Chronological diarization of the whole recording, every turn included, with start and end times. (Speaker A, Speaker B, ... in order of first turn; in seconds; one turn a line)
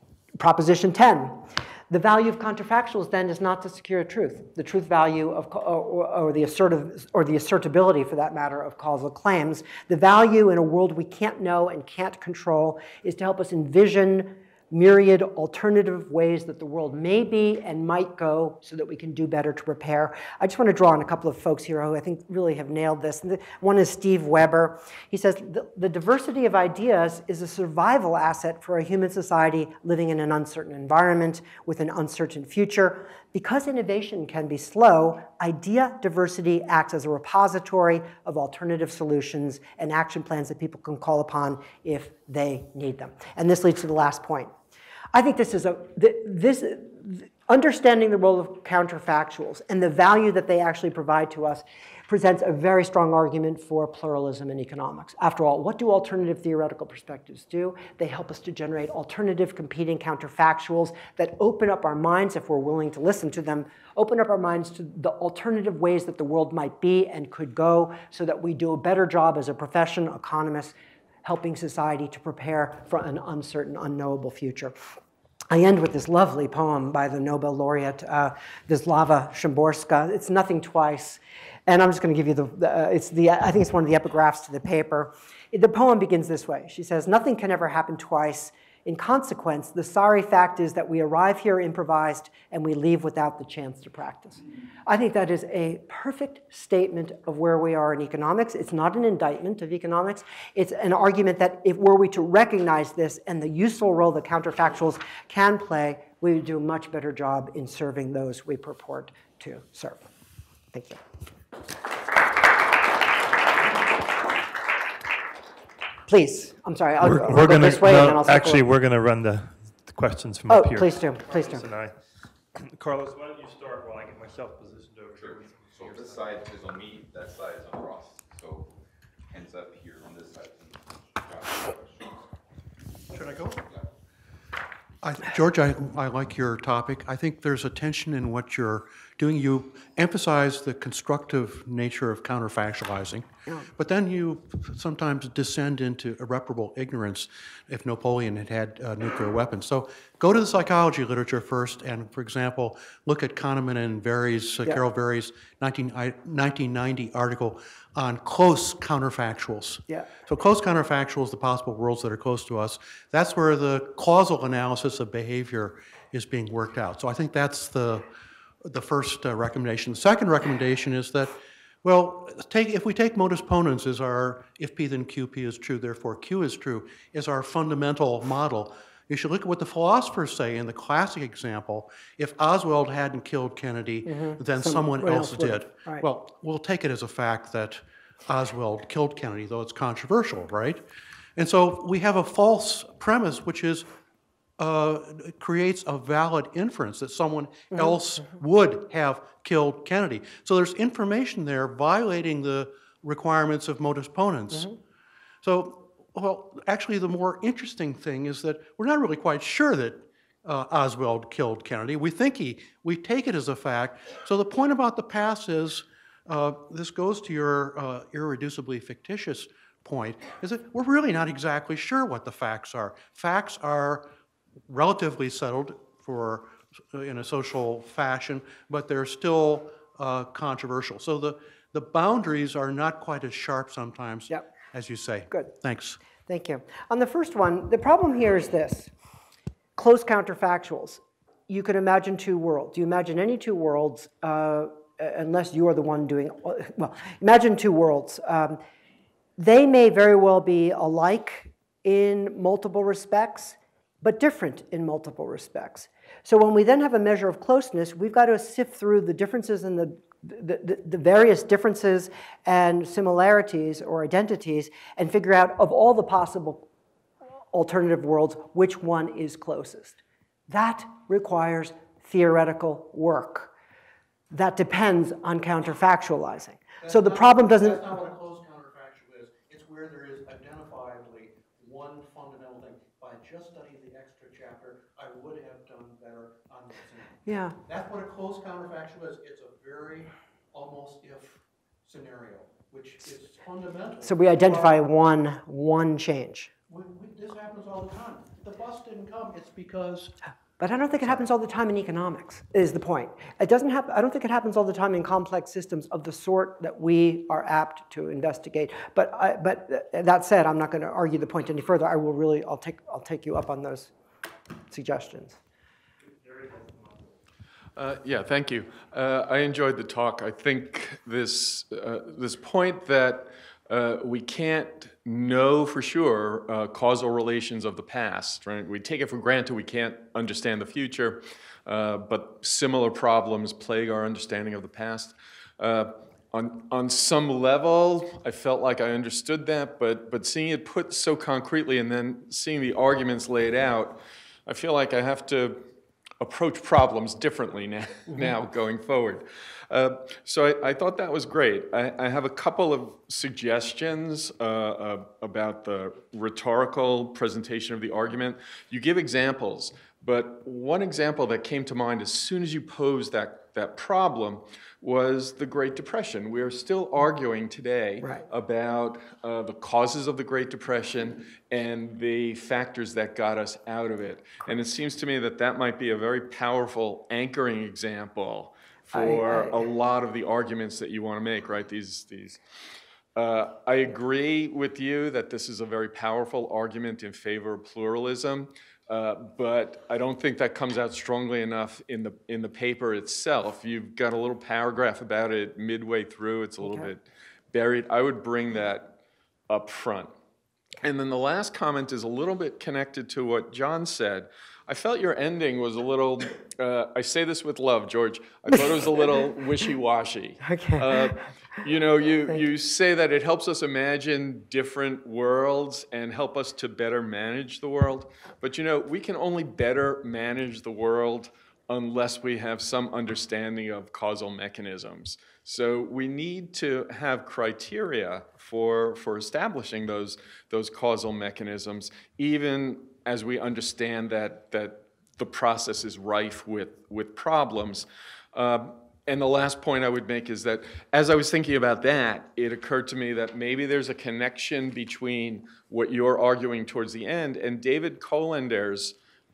Speaker A: 0.4-44.5
Speaker A: 45.1-74.8
Speaker A: 75.5-110.0
Speaker A: 110.7-111.0
Speaker A: 116.1-118.7
Speaker A: 120.5-121.7
Speaker B: 121.4-121.9
Speaker B: 122.6-126.1
Speaker C: 125.2-128.7
Speaker C: 129.3-132.2
Speaker D: 133.2-133.5
Speaker D: 135.0-168.1
Speaker D: 168.6-190.8
Speaker A: 184.1-186.1
Speaker D: 191.3-193.9
Speaker D: 194.6-204.8
Speaker D: 205.4-224.1
Speaker D: 224.7-236.0
Speaker A: 236.2-238.9
Speaker A: 239.8-248.6
Speaker A: 249.4-266.7
Speaker A: 267.5-273.5
Speaker A: 274.3-277.8
Speaker D: 276.8-294.7
Speaker A: 287.2-287.6
Speaker A: 294.0-296.5
Speaker D: 296.7-300.1
Speaker A: 300.6-313.9
Speaker A: 314.7-315.4
Speaker E: 317.8-345.6
Speaker E: 346.2-382.4
Speaker A: 378.9-379.6
Speaker E: 383.1-398.9
Speaker A: 396.6-396.9
Speaker E: 399.5-400.1
Speaker E: 400.8-448.9
Speaker A: 410.4-411.2